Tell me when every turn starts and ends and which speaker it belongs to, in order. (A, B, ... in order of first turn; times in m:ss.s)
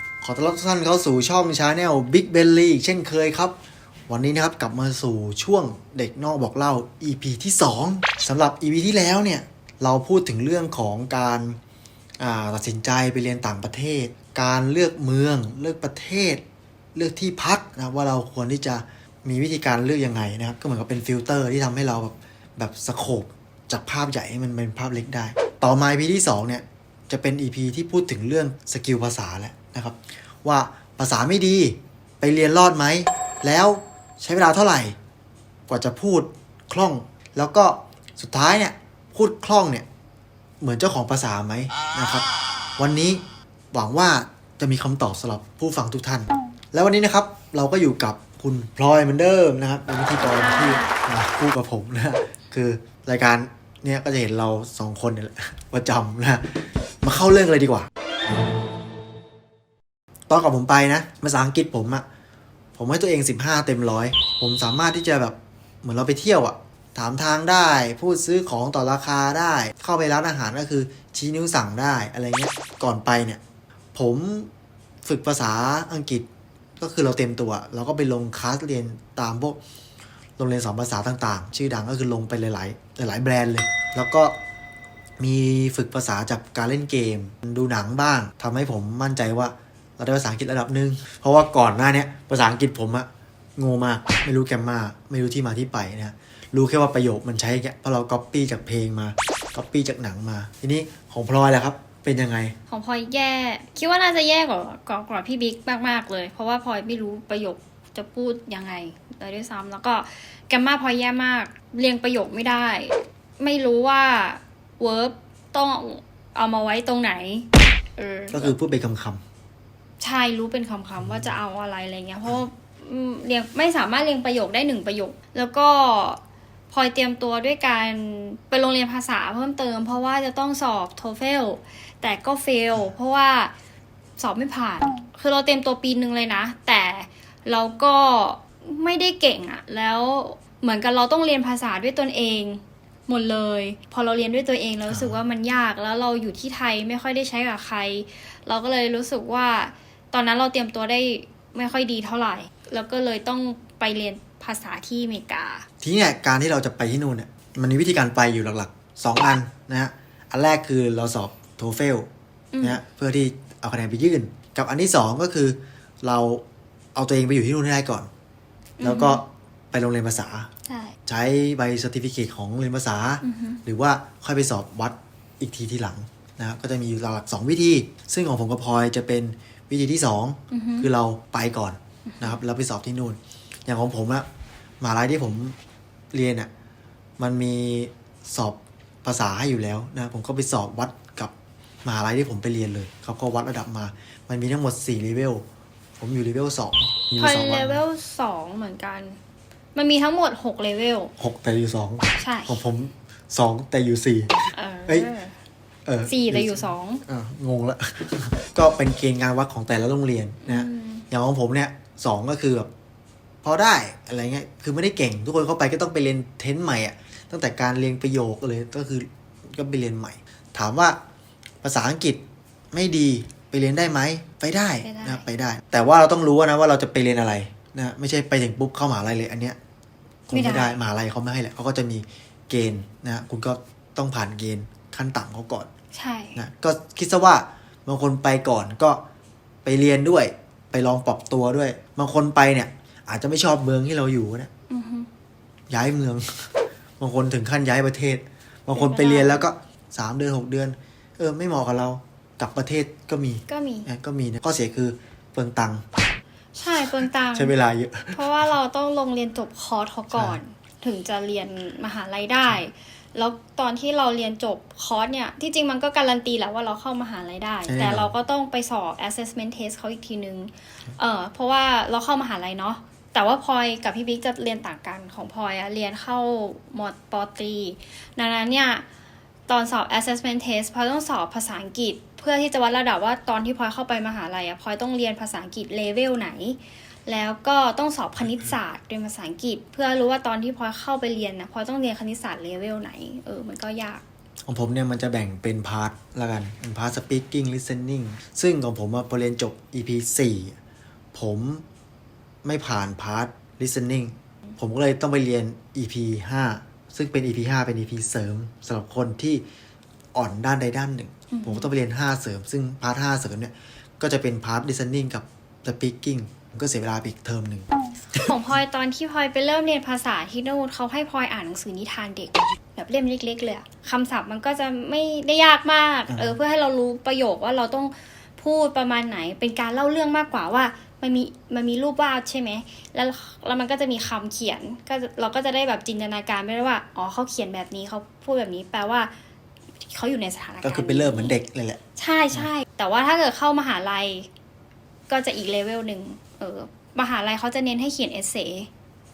0:00.2-0:03.6 A
0:04.1-0:11.6 A
0:12.2-0:16.4 A
0:17.0-0:35.0 A
0:35.7-0:39.9 A
0:40.6-0:42.3 A
0:42.8-0:43.2 A
0:43.7-0:57.9 A
0:50.2-0:51.0 B
1:00.3-1:02.0 A
1:02.8-1:13.4 A
1:14.0-1:14.5 A
1:15.0-1:16.3 A
1:16.8-1:19.6 A
1:20.4-1:24.4 A
1:25.2-1:42.6 A
1:42.7-1:58.5 B
1:58.3-1:59.2 A
2:00.0-2:06.2 B
2:06.7-2:13.5 B
2:14.2-2:35.7 B
2:24.9-2:25.2 A
2:35.8-2:42.1 A
2:42.5-2:42.8 B
2:42.6-2:46.4 A
2:47.0-2:48.1 A
2:48.8-2:49.2 B
2:48.8-2:50.5 A
2:50.7-2:51.0 B
2:51.1-3:04.3 A
2:53.2-2:53.6 B
3:00.5-3:00.9 B
3:02.1-3:02.4 B
3:04.8-3:05.6 A
3:06.1-3:06.5 A
3:07.2-3:11.3 A
3:11.8-3:15.4 A
3:16.0-3:17.8 A
3:17.2-3:19.2 B
3:19.8-3:21.1 B
3:21.2-3:25.1 A
3:22.2-3:22.6 B
3:24.5-3:25.4 B
3:25.9-3:32.7 A
3:26.1-3:27.0 B
3:30.4-3:31.1 B
3:33.4-3:41.0 A
3:41.6-3:49.6 A
3:44.8-3:45.3 B
3:50.3-3:55.7 A
3:50.3-3:50.8 B
3:55.9-3:56.4 B
3:56.4-3:59.0 A
3:59.6-4:04.5 A
4:04.7-4:05.1 B
4:05.7-4:15.8 A
4:08.8-4:09.4 B
4:13.5-4:13.9 B
4:16.6-4:17.5 B
4:17.4-4:18.3 A
4:18.1-4:38.9 B
4:20.1-4:20.4 A
4:27.7-4:28.1 A
4:39.5-4:54.0 B
4:54.5-5:00.6 A
5:01.1-5:01.6 A
5:02.4-5:09.4 A
5:10.2-5:18.3 A
5:11.3-5:11.7 B
5:18.2-5:39.1 B
5:26.1-5:26.4 A
5:39.8-5:41.4 B
5:40.6-5:41.8 A
5:42.0-5:44.3 B
5:45.1-5:48.7 B